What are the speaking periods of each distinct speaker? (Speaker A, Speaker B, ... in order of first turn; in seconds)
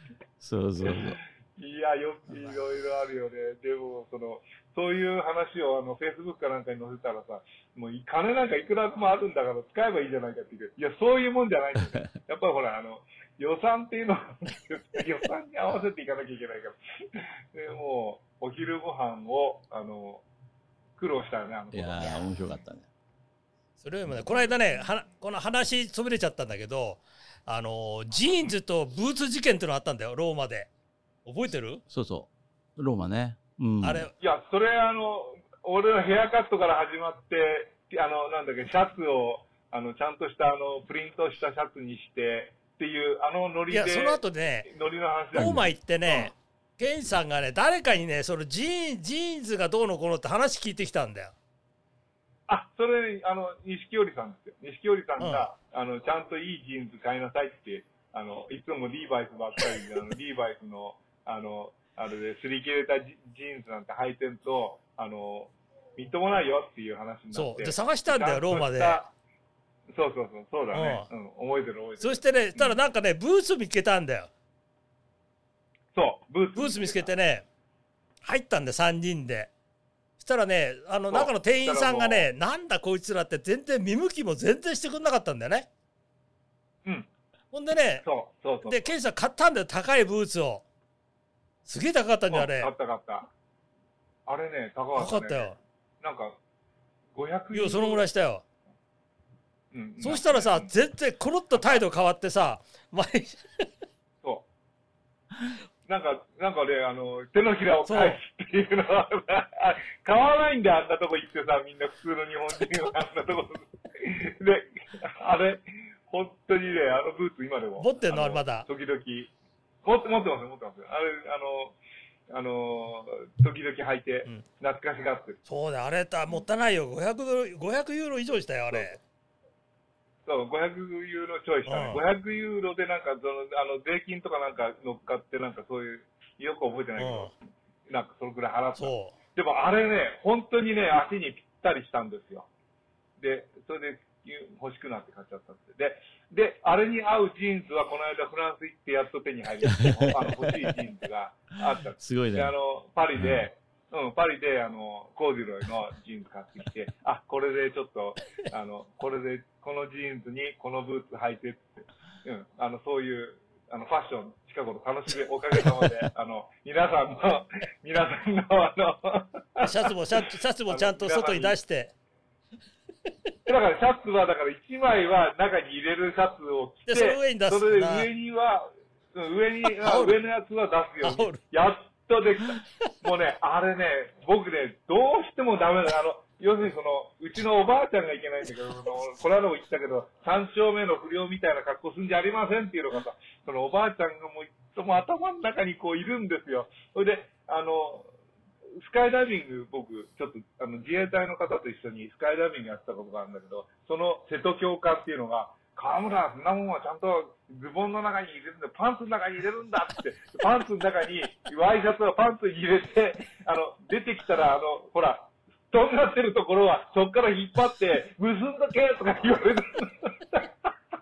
Speaker A: 0.4-1.2, 21.7-22.9, 31.9-34.1, 149.8-150.7, 152.0-152.5, 153.2-153.5
Speaker B: 0.8-20.2, 21.0-22.4, 34.2-46.3, 52.5-69.1, 69.9-72.8, 75.9-77.2, 81.1-82.3, 88.0-88.9, 92.3-93.3, 94.3-96.4, 97.2-98.1, 99.7-100.7, 101.5-101.8, 105.9-119.3, 119.8-121.8, 122.3-125.4, 130.3-137.3, 137.9-142.5, 143.2-171.6, 173.5-198.1, 198.8-220.7
Speaker C: 23.8-30.7, 31.2-31.8, 33.8-34.1, 43.7-44.7, 45.4-51.3, 55.2-55.5, 67.3-69.0, 70.7-71.1, 72.0-74.3, 76.5-77.5, 78.2-79.5, 80.2-85.7, 87.5-88.0, 88.7-90.6, 91.7-92.7, 95.0-95.6, 97.5-98.4, 100.0-103.7, 107.9-108.2, 117.8-118.7, 125.5-129.0, 131.7-132.0, 137.0-137.3, 138.8-139.2, 169.6-171.9, 176.9-178.1, 179.6-180.2, 181.0-181.4